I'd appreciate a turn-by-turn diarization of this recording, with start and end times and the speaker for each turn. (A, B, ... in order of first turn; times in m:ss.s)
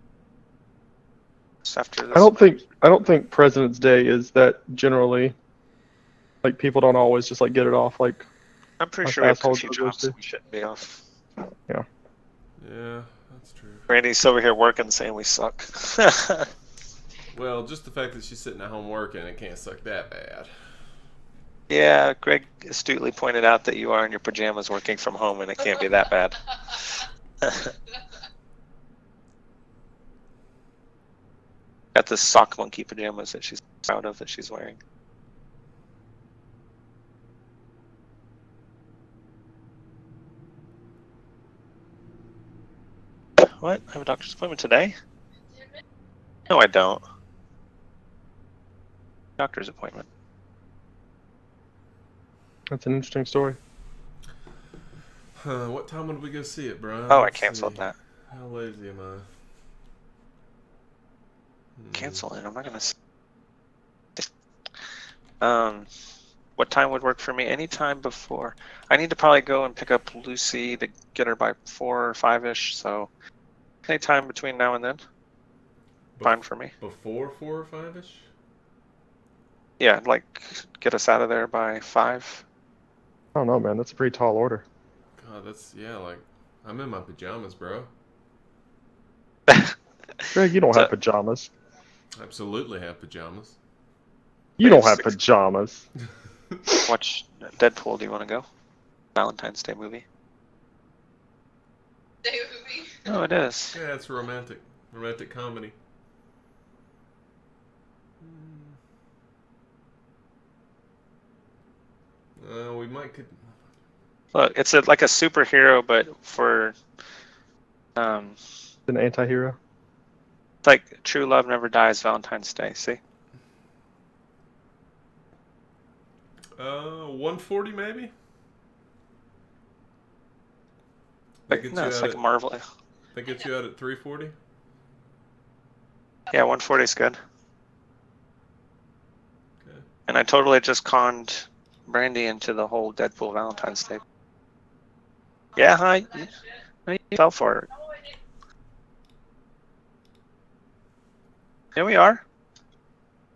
0:01.6-0:02.5 A
0:02.1-0:05.3 B
0:06.4-0:08.2 B
0:08.8-0:11.0 A
0:09.0-0:10.1 B
0:12.6-0:13.9 C
0:13.9-0:16.5 A
0:17.3-0:20.5 C
0:21.7-0:27.7 A
0:31.9-0:34.8 A
0:43.4-0:44.9 A
0:46.5-0:47.0 A
0:49.4-0:50.0 A
0:52.7-0:53.6 B
0:55.3-0:59.3 C
0:57.1-0:58.0 A
1:01.8-1:02.2 C
1:01.9-1:02.9 A
1:05.4-1:05.9 A
1:06.6-1:13.1 A
1:13.8-1:15.0 A
1:16.2-1:18.3 C
1:16.2-1:16.7 A
1:19.8-1:22.4 A
1:23.3-1:24.6 B
1:25.2-1:27.9 C
1:29.5-1:29.7 A
1:30.3-1:31.5 B
1:32.2-1:33.6 C
1:34.6-1:35.8 B
1:34.6-1:35.1 A
1:36.8-1:38.4 A
1:39.2-1:40.0 A
1:43.0-1:43.8 A
1:43.7-1:45.7 C
1:48.2-1:48.8 C
1:52.4-1:53.6 C
1:54.3-1:56.8 A
1:58.0-1:58.4 A
1:58.9-1:59.6 B
2:00.6-2:03.0 A
2:06.6-2:08.1 C
2:11.5-2:12.2 C
2:11.5-2:12.6 A
2:13.1-2:14.3 C
2:16.3-2:17.2 A
2:20.1-2:24.0 A
2:25.6-2:26.3 A
2:26.9-2:27.7 A
2:31.7-2:32.2 A